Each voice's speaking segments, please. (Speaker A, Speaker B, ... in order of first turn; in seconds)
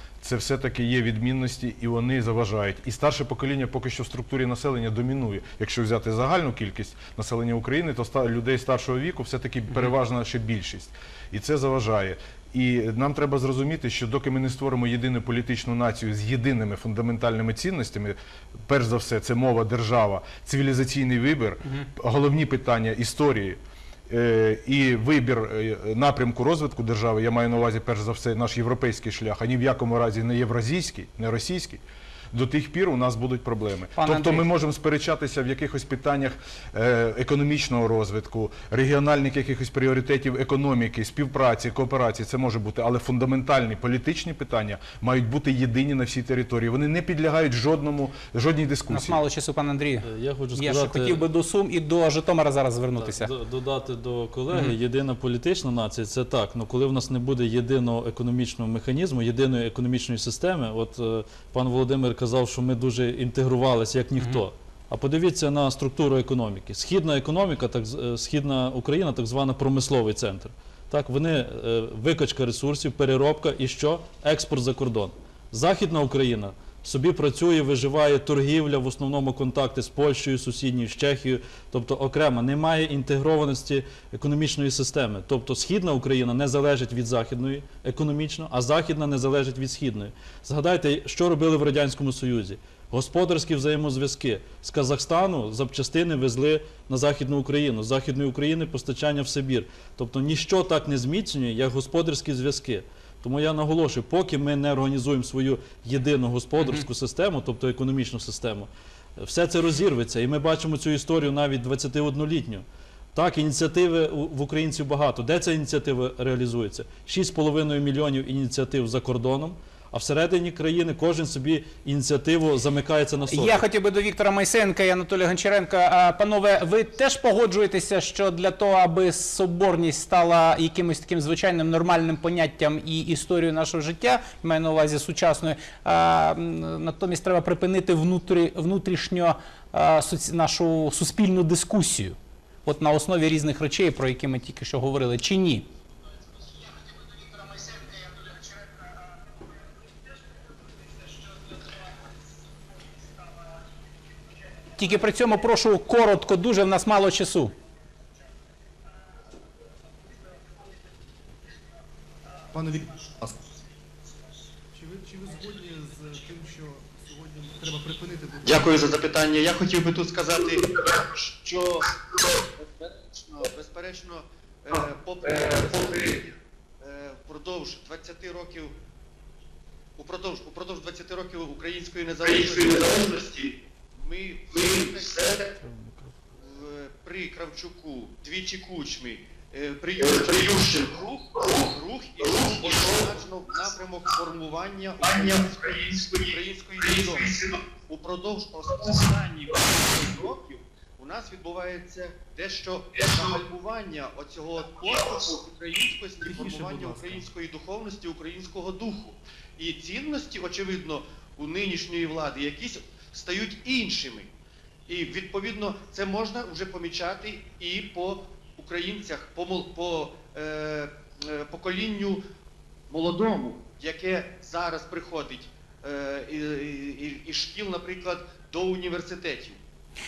Speaker A: 0.2-49.2
Speaker B: 34.0-34.5, 48.9-53.3, 106.6-106.8, 123.3-145.7, 154.8-157.5
Speaker C: 50.0-51.2, 53.0-123.6, 185.6-186.1
Speaker D: 162.5-163.4, 164.7-168.9, 206.2-207.3
Speaker E: 168.4-171.9, 172.4-178.7, 180.0-185.5, 186.4-214.3, 214.9-222.2, 222.9-229.6